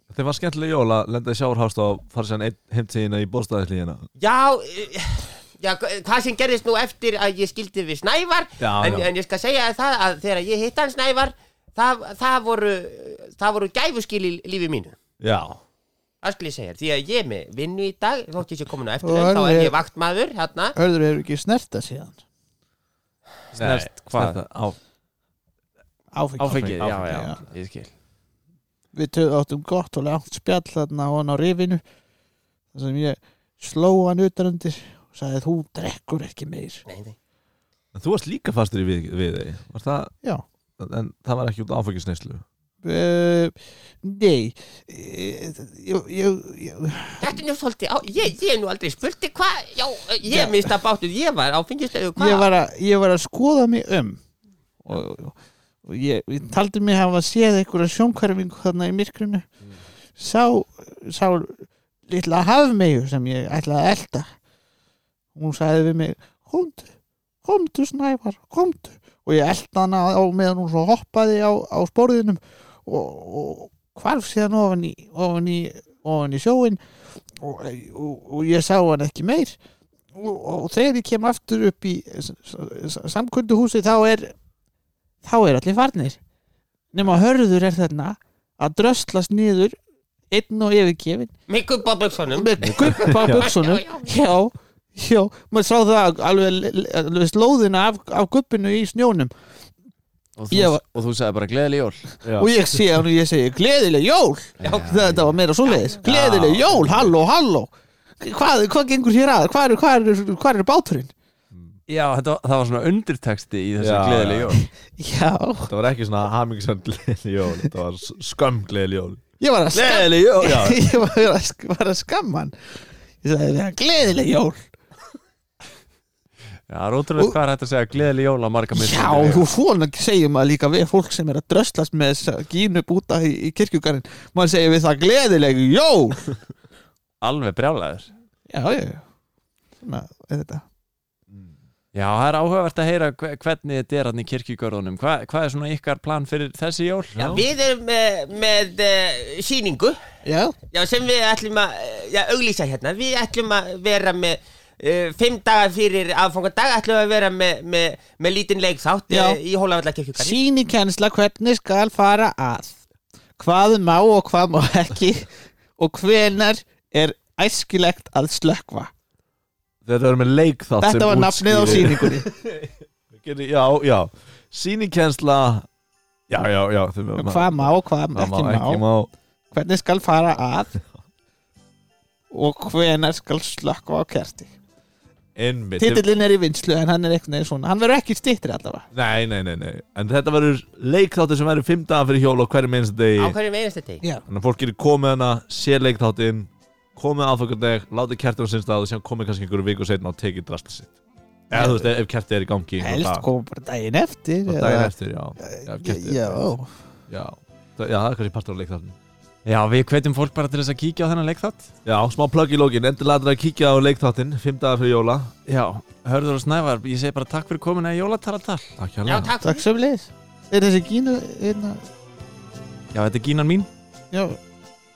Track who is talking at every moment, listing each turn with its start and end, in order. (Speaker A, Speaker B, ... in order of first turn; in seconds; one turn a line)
Speaker A: 0.1-4.0
Speaker B: 4.2-14.9
Speaker A: 8.6-9.1
Speaker A: 15.2-15.6
Speaker B: 16.2-20.8
Speaker C: 19.0-19.8
Speaker C: 20.8-22.2
Speaker D: 23.5-24.4
Speaker A: 23.5-24.8
Speaker C: 26.1-27.4
Speaker D: 26.4-27.9
Speaker A: 26.4-27.0
Speaker C: 28.9-31.8
Speaker C: 32.7-36.8
Speaker B: 36.9-37.1
Speaker A: 37.9-40.1
Speaker A: 40.8-42.4
Speaker C: 42.8-47.4
Speaker B: 47.2-52.5
Speaker C: 50.2-50.7
Speaker C: 52.1-54.2
Speaker C: 54.8-59.4
Speaker C: 60.2-64.2
Speaker C: 65.3-66.9
Speaker C: 67.4-76.8
Speaker C: 77.4-79.6
Speaker C: 80.1-84.3
Speaker C: 85.2-86.2
Speaker C: 86.9-89.8
Speaker C: 90.3-91.3
Speaker B: 91.5-94.1
Speaker C: 92.3-99.3
Speaker A: 92.6-93.4
Speaker D: 100.4-102.1
Speaker C: 100.5-100.8
Speaker A: 102.2-102.5
Speaker C: 102.3-111.1
Speaker D: 104.6-105.3
Speaker B: 104.6-105.1
Speaker B: 105.6-106.0
Speaker D: 106.0-107.0
Speaker D: 111.9-114.7
Speaker A: 113.8-114.5
Speaker C: 114.9-115.7
Speaker A: 115.6-119.2
Speaker C: 119.4-124.7
Speaker A: 119.7-120.8
Speaker D: 126.7-129.6
Speaker C: 128.7-136.4
Speaker D: 137.2-138.1
Speaker C: 138.5-139.0
Speaker C: 139.8-140.6
Speaker D: 141.9-147.4
Speaker A: 147.1-147.4
Speaker B: 147.2-150.0
Speaker C: 150.2-150.6
Speaker B: 150.7-160.4
Speaker C: 159.1-159.4
Speaker C: 160.2-162.8
Speaker C: 163.4-168.9
Speaker A: 169.8-175.7
Speaker C: 170.8-172.3
Speaker A: 176.3-179.1
Speaker C: 177.2-178.8
Speaker C: 179.5-180.8
Speaker C: 182.3-184.5
Speaker A: 185.3-186.1
Speaker C: 185.8-188.9
Speaker A: 188.9-193.3
Speaker B: 193.2-194.0
Speaker A: 194.3-200.9
Speaker A: 201.5-203.2
Speaker C: 201.5-201.9
Speaker C: 202.8-206.7
Speaker A: 204.5-206.4
Speaker A: 207.1-208.9
Speaker D: 209.4-211.7
Speaker A: 211.8-215.3
Speaker D: 215.5-218.7
Speaker A: 218.8-219.3
Speaker B: 219.1-219.6
Speaker C: 219.4-221.8
Speaker D: 222.9-223.7
Speaker C: 224.1-224.4